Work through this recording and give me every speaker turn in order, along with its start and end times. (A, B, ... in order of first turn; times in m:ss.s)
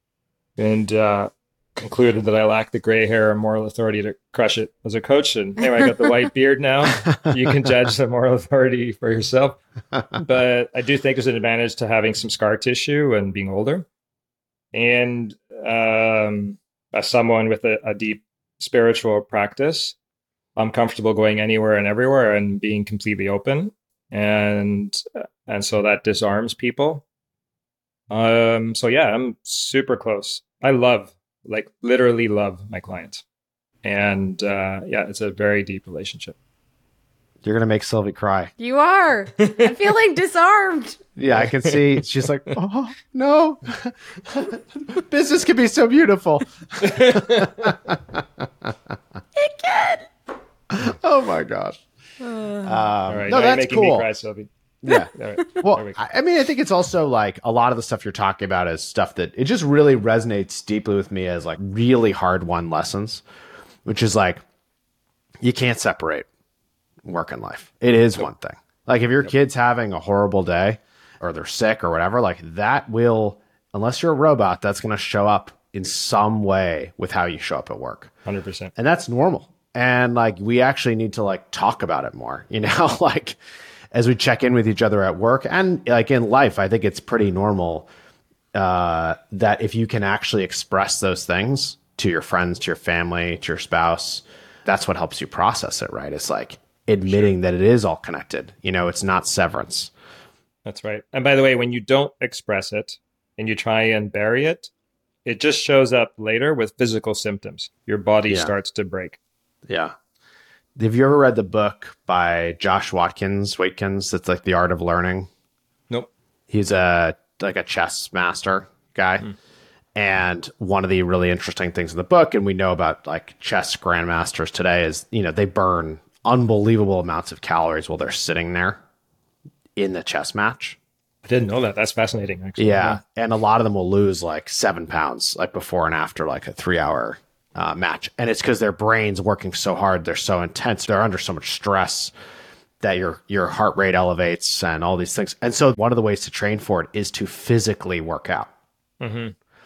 0:00.6-0:09.6 A
0:10.1-0:13.8 A
0:14.7-0:20.0 A
0:20.6-0:27.0 A
0:28.1-0:33.2 A
0:33.8-0:36.4 A
0:37.4-0:38.5 B
0:38.6-0:41.0 C
0:39.4-0:39.7 A
0:41.2-0:48.2 B
0:41.3-0:42.6 A
0:46.8-0:47.8 A
0:49.4-0:50.1 C
0:50.7-0:51.8 B
0:52.2-0:52.8 C
0:52.6-0:54.1 B
0:53.1-0:56.0 A
0:54.8-1:03.2 B
1:03.8-1:04.4 B
1:05.4-1:06.2 B
1:07.0-1:18.1 B
1:18.2-1:18.7 A
1:18.7-1:23.4 B
1:23.9-1:27.9 B
1:28.5-1:39.9 B
1:40.6-1:44.7 A
1:45.2-1:49.2 A
1:49.7-1:49.9 B
1:50.8-1:55.3 B
1:56.5-1:59.2 B
2:00.0-2:08.8 B
2:09.8-2:10.8 B
2:11.2-2:13.0 A
2:12.6-2:22.1 B
2:22.8-2:28.5 B
2:29.0-2:29.3 A